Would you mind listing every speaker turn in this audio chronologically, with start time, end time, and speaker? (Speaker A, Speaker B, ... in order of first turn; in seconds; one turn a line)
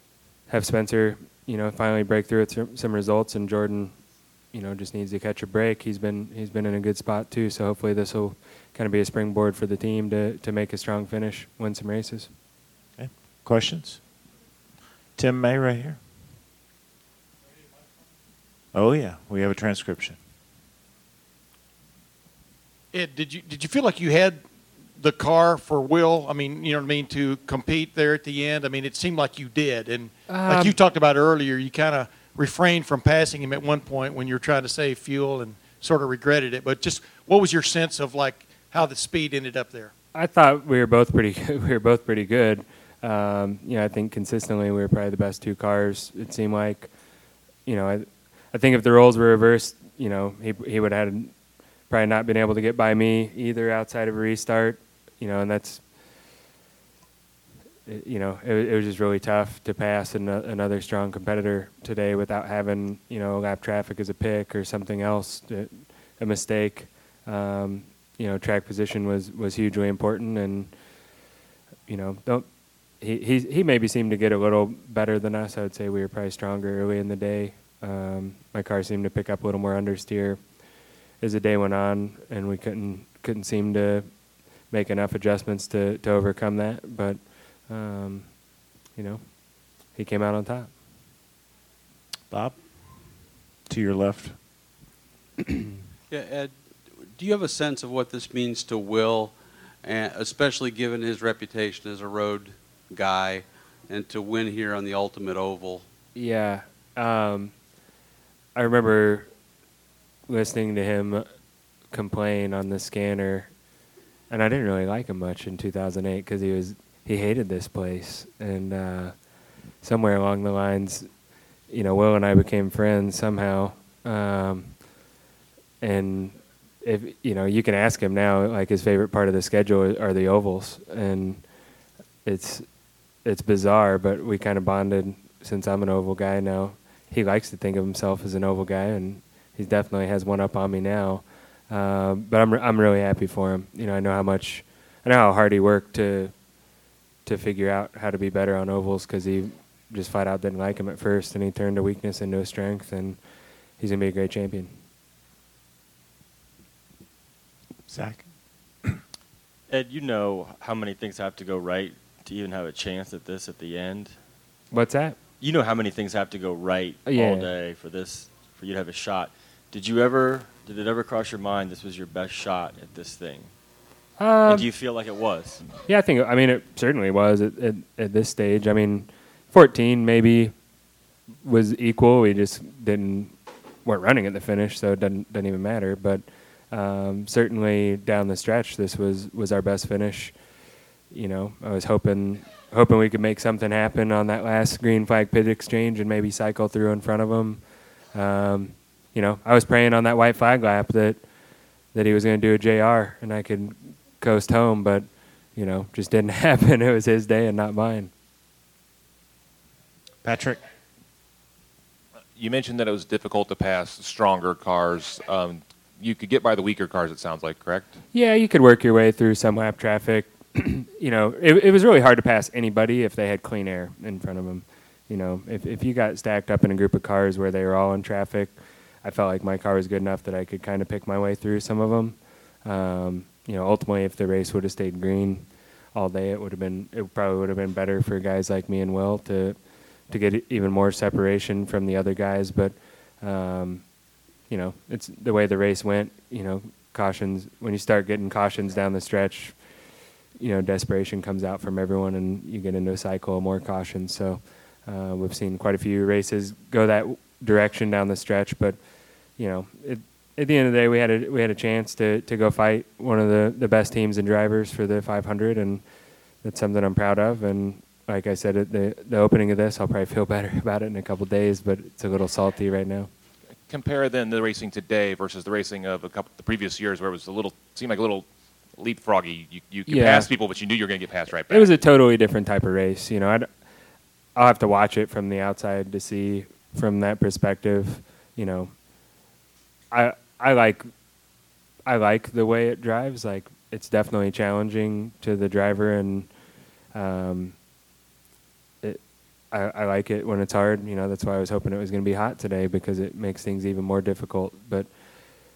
Speaker A: 0.5-4.0
Speaker A: 4.5-12.3
Speaker B: 13.0-14.0
Speaker B: 15.2-16.0
Speaker B: 18.7-20.2
Speaker C: 22.9-24.4
Speaker C: 25.0-39.9
Speaker A: 30.3-30.8
Speaker A: 40.1-46.9
Speaker A: 47.6-51.3
Speaker A: 51.9-55.8
Speaker A: 57.9-70.8
Speaker A: 71.9-88.4
Speaker A: 88.9-90.8
Speaker B: 92.3-94.4
Speaker D: 96.1-105.9
Speaker A: 106.1-107.6
Speaker A: 108.5-109.3
Speaker A: 110.3-111.2
Speaker A: 111.8-113.5
Speaker A: 114.3-124.8
Speaker A: 125.8-131.5
Speaker A: 132.2-146.3
Speaker A: 147.2-154.7
Speaker B: 157.9-158.3
Speaker E: 159.7-164.2
Speaker A: 164.7-165.2
Speaker E: 165.4-173.5
Speaker A: 167.0-167.5
Speaker A: 174.2-174.7
Speaker E: 174.5-175.6
Speaker A: 175.8-180.5
Speaker A: 181.4-190.4
Speaker A: 191.1-201.2
Speaker A: 201.9-208.1
Speaker B: 210.2-210.6
Speaker F: 212.3-217.9
Speaker A: 218.1-249.7
Speaker A: 250.3-265.9
Speaker A: 266.4-273.1
Speaker F: 273.6-281.7
Speaker A: 279.9-280.3
Speaker A: 281.4-283.5
Speaker A: 284.3-288.7
Speaker A: 289.9-290.9
Speaker A: 291.9-296.3
Speaker A: 296.9-297.6
Speaker A: 298.8-304.9